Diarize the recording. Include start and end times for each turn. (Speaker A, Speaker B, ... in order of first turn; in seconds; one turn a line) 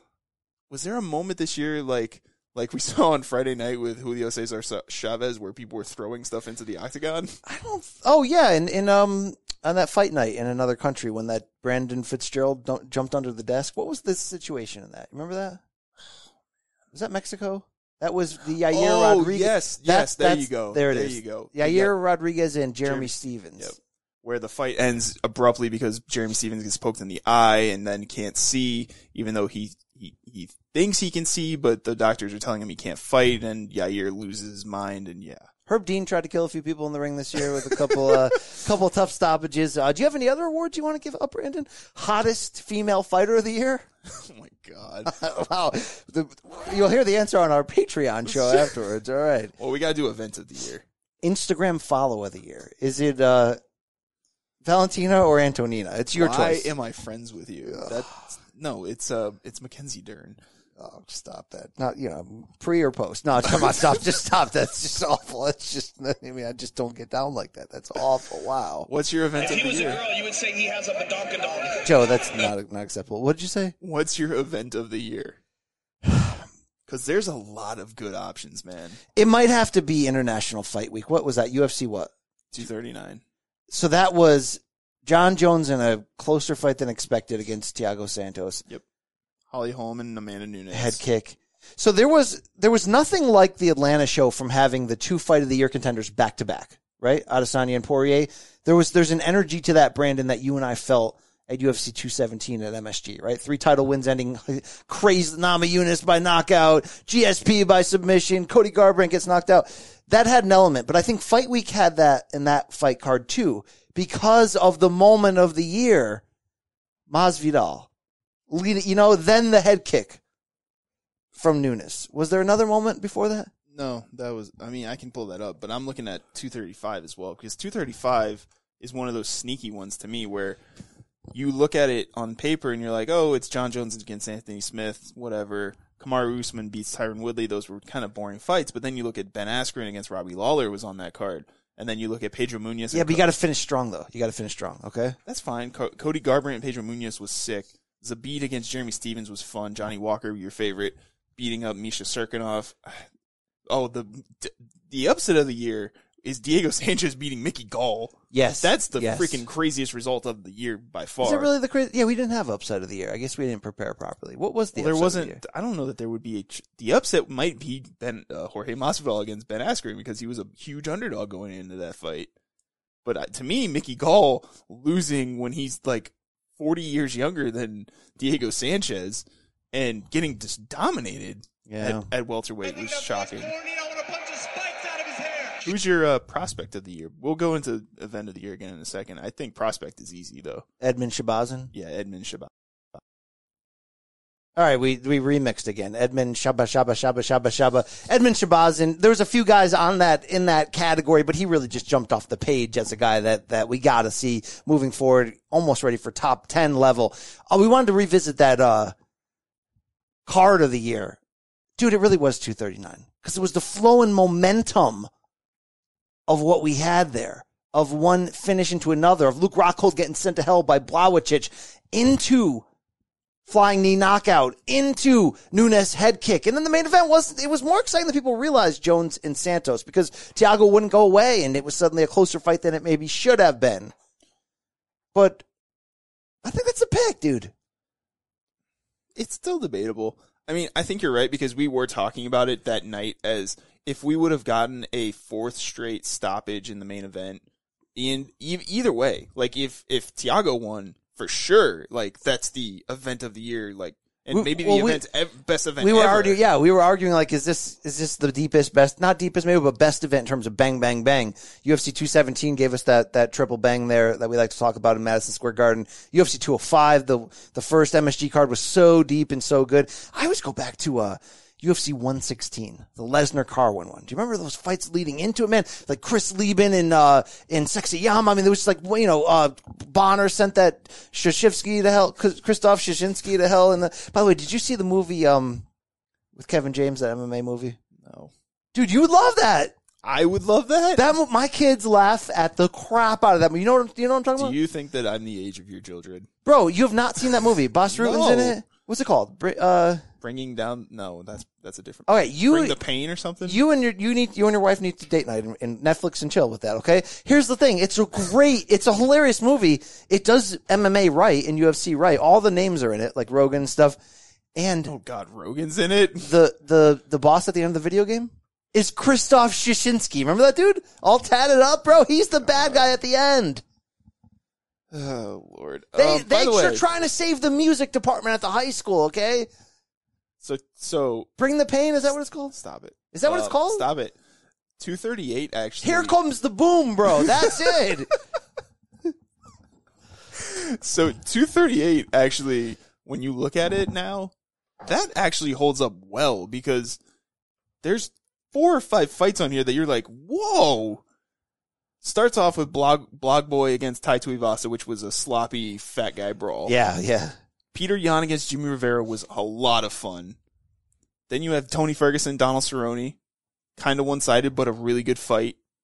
Speaker A: 0.7-7.4
Speaker B: 7.5-15.6
Speaker B: 16.9-23.8
Speaker A: 18.7-21.9
Speaker A: 22.8-35.5
Speaker B: 35.7-43.9
Speaker A: 44.0-45.2
Speaker B: 45.1-49.5
Speaker A: 48.3-48.7
Speaker A: 49.6-50.8
Speaker B: 51.2-53.6
Speaker B: 54.6-56.7
Speaker A: 56.1-60.4
Speaker B: 57.7-58.2
Speaker B: 60.8-68.9
Speaker A: 68.9-70.0
Speaker C: 69.4-71.9
Speaker B: 71.8-73.8
Speaker A: 73.8-75.4
Speaker B: 76.1-76.3
Speaker A: 76.9-79.0
Speaker B: 79.2-82.1
Speaker A: 82.5-83.2
Speaker B: 83.7-88.6
Speaker A: 89.5-91.0
Speaker B: 90.7-116.2
Speaker B: 117.1-117.9
Speaker B: 118.5-120.2
Speaker B: 121.4-123.5
Speaker A: 123.7-130.6
Speaker A: 131.3-143.3
Speaker B: 142.9-145.2
Speaker A: 145.3-153.1
Speaker A: 153.7-161.5
Speaker B: 158.3-159.4
Speaker B: 161.2-165.4
Speaker A: 164.7-172.3
Speaker A: 173.0-183.5
Speaker B: 181.7-182.1
Speaker C: 182.6-185.7
Speaker A: 185.6-190.7
Speaker B: 190.8-191.7
Speaker A: 191.7-192.5
Speaker B: 194.6-208.9
Speaker B: 210.3-211.2
Speaker B: 211.8-215.1
Speaker B: 216.3-222.7
Speaker B: 223.5-233.9
Speaker B: 235.1-235.4
Speaker B: 236.4-237.5
Speaker A: 239.2-247.4
Speaker A: 247.9-256.4
Speaker B: 254.3-255.0
Speaker B: 255.8-285.7
Speaker B: 286.4-287.8
Speaker A: 288.0-288.3
Speaker B: 288.7-289.7
Speaker A: 290.0-291.1
Speaker B: 290.9-294.6
Speaker A: 294.4-296.3
Speaker B: 296.4-300.1
Speaker A: 297.9-298.6
Speaker A: 300.2-303.6
Speaker B: 302.1-302.8
Speaker B: 303.4-314.0
Speaker B: 314.6-314.9
Speaker A: 314.9-316.3
Speaker B: 316.2-323.6
Speaker A: 322.4-322.9
Speaker A: 324.9-326.9
Speaker B: 326.0-329.5
Speaker A: 330.4-331.3
Speaker B: 331.4-332.5
Speaker A: 332.5-334.1
Speaker B: 333.1-333.9
Speaker A: 334.8-336.2
Speaker B: 335.8-338.1
Speaker A: 337.1-338.2
Speaker A: 340.4-344.3
Speaker A: 344.8-347.0
Speaker A: 347.8-351.0
Speaker A: 352.0-356.7
Speaker B: 356.7-357.4
Speaker A: 357.7-360.4
Speaker A: 361.3-363.2
Speaker A: 363.8-365.6